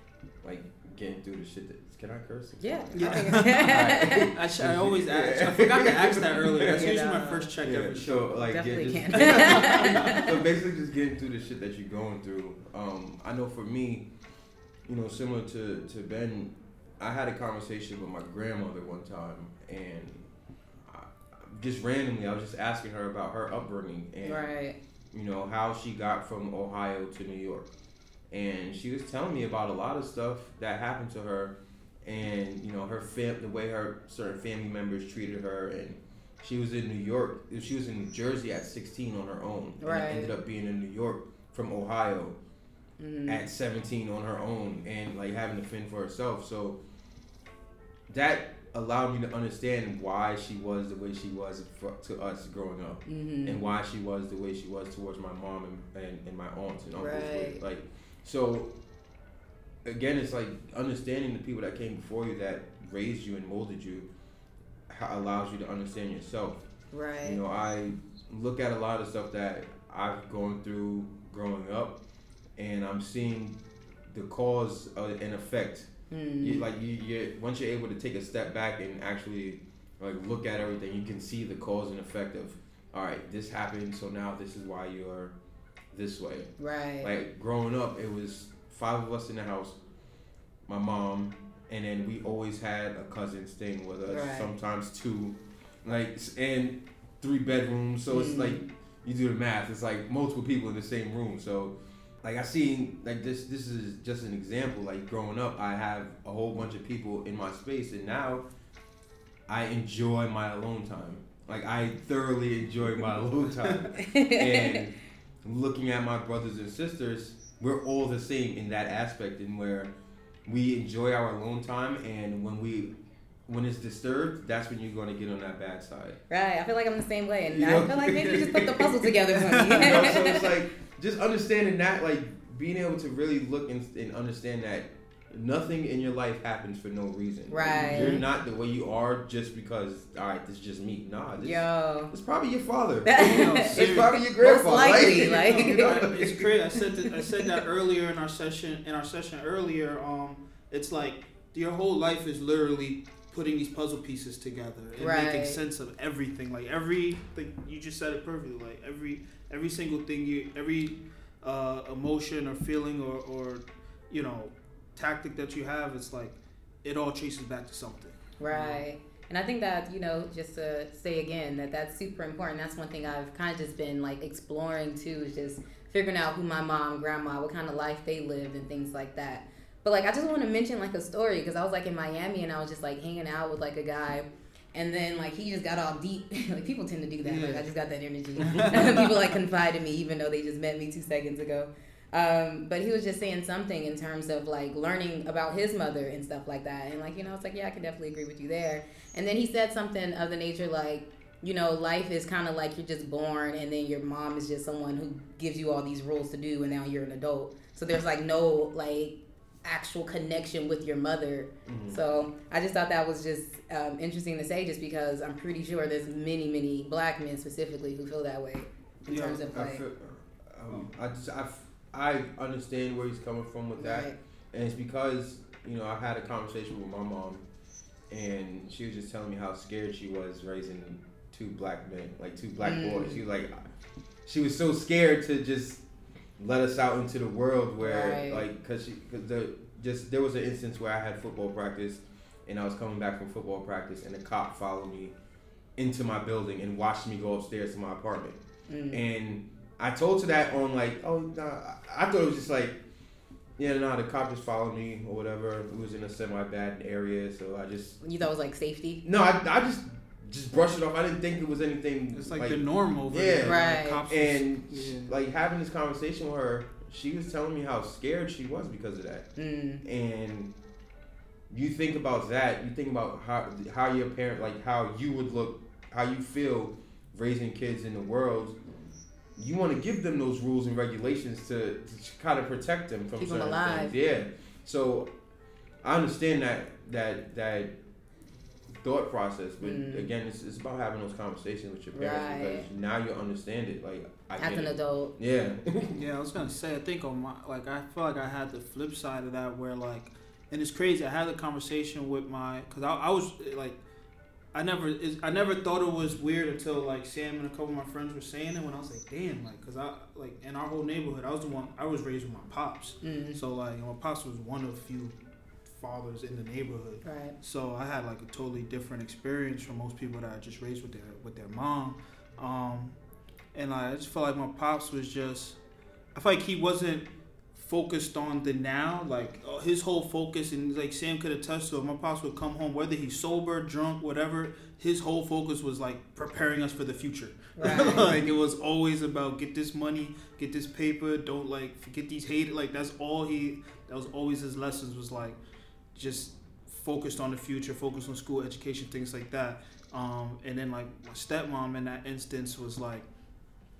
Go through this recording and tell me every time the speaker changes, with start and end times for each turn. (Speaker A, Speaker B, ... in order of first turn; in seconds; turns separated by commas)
Speaker A: 0.4-6.8, Speaker B: 2.6-4.3, Speaker C: 2.9-8.3, Speaker B: 6.7-7.5, Speaker A: 7.6-14.1, Speaker B: 8.5-10.2, Speaker C: 9.1-10.3, Speaker A: 14.8-20.3, Speaker A: 20.9-24.4, Speaker B: 24.2-24.8, Speaker A: 25.1-27.7, Speaker A: 28.3-42.4, Speaker B: 39.8-40.3, Speaker B: 43.0-43.4, Speaker A: 43.2-46.8, Speaker A: 48.1-58.7, Speaker B: 53.1-53.6, Speaker B: 57.0-57.6, Speaker A: 59.8-64.1, Speaker A: 64.9-66.6, Speaker B: 66.9-67.4, Speaker A: 67.2-72.0, Speaker A: 72.6-85.3, Speaker B: 76.1-76.6, Speaker A: 85.9-89.8, Speaker B: 86.6-87.1, Speaker A: 90.7-108.5, Speaker B: 94.0-94.5, Speaker B: 98.1-98.6, Speaker A: 109.5-119.9, Speaker B: 114.0-114.8, Speaker A: 120.5-122.9, Speaker A: 123.5-126.2, Speaker B: 126.3-130.5, Speaker A: 127.5-146.5, Speaker C: 129.4-130.0, Speaker B: 137.5-138.2, Speaker C: 137.8-138.2, Speaker B: 141.4-142.1, Speaker B: 143.1-146.0, Speaker C: 143.2-144.2, Speaker C: 144.8-168.8, Speaker B: 146.9-147.4, Speaker B: 155.0-155.6, Speaker B: 168.4-219.8, Speaker C: 187.2-187.6, Speaker C: 188.4-189.1, Speaker A: 211.7-212.0, Speaker C: 219.1-219.4, Speaker A: 219.5-227.4, Speaker B: 223.8-224.2, Speaker A: 228.1-233.6, Speaker B: 232.6-233.2, Speaker A: 234.2-235.8, Speaker A: 236.4-245.1, Speaker B: 237.8-238.4, Speaker A: 245.8-248.4, Speaker B: 248.7-249.0, Speaker A: 248.9-252.8, Speaker A: 253.6-258.0, Speaker B: 258.0-259.0, Speaker A: 259.0-269.3, Speaker C: 262.1-265.1, Speaker B: 263.4-264.0, Speaker B: 269.4-269.8, Speaker A: 269.8-270.5, Speaker A: 271.5-278.6, Speaker A: 279.4-285.1, Speaker B: 283.2-283.9, Speaker A: 285.8-287.7, Speaker A: 288.8-296.0, Speaker B: 289.6-290.1, Speaker B: 291.9-292.6, Speaker B: 294.4-295.1, Speaker C: 295.9-303.8, Speaker C: 304.5-323.0, Speaker B: 313.0-313.4, Speaker B: 317.0-317.3, Speaker C: 323.5-325.6, Speaker C: 326.1-345.4, Speaker B: 337.6-338.1, Speaker C: 345.9-353.1